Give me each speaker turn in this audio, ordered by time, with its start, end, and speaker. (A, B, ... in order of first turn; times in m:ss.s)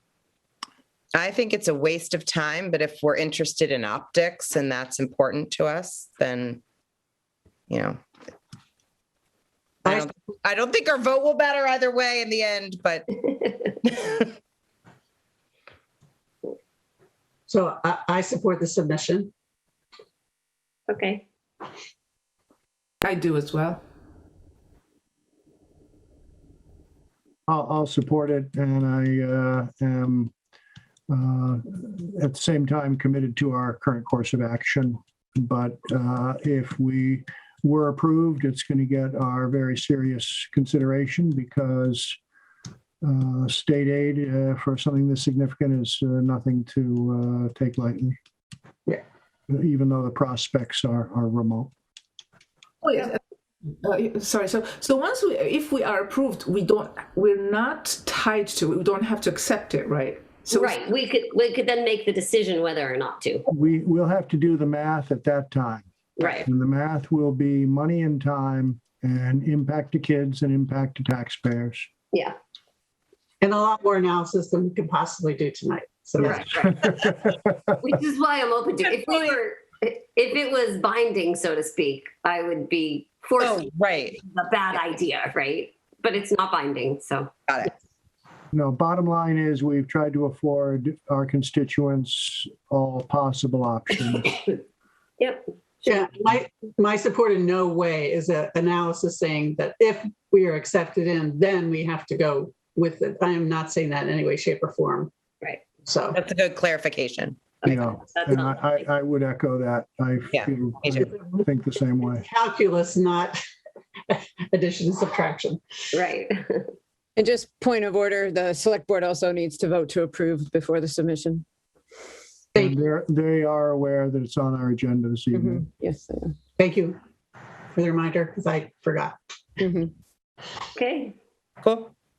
0:01.1-0:06.6 A
0:07.7-0:08.0 A
0:09.8-0:13.2 A
0:14.0-0:14.2 A
0:17.5-0:19.3 B
0:20.9-0:21.2 C
0:23.0-0:23.8 D
0:27.5-0:30.3 E
0:31.1-0:42.2 E
0:43.0-0:48.2 E
0:49.5-0:51.7 E
0:52.8-0:53.2 D
0:53.8-1:00.8 D
1:00.5-1:03.5 C
1:03.5-1:11.9 E
1:06.2-1:06.5 C
1:12.1-1:12.4 C
1:13.4-1:16.5 B
1:16.2-1:17.2 E
1:16.2-1:17.1 C
1:17.8-1:27.4 C
1:23.4-1:24.2 A
1:27.5-1:27.7 A
1:28.5-1:34.3 E
1:35.2-1:35.5 C
1:35.9-1:45.1 B
1:45.4-1:45.7 C
1:45.8-1:46.2 B
1:46.1-1:47.8 A
1:47.6-1:52.2 E
1:47.6-1:48.8 C
1:50.3-1:51.1 A
1:51.1-1:51.4 B
1:52.2-1:53.4 B
1:54.1-1:55.6 B
1:55.9-1:56.7 C
1:57.2-2:01.4 F
2:02.6-2:05.7 E
2:05.3-2:06.4 F
2:06.6-2:07.0 B
2:07.7-2:09.2 B
2:09.6-2:09.9 F
2:10.7-2:11.2 C
2:11.6-2:11.9 A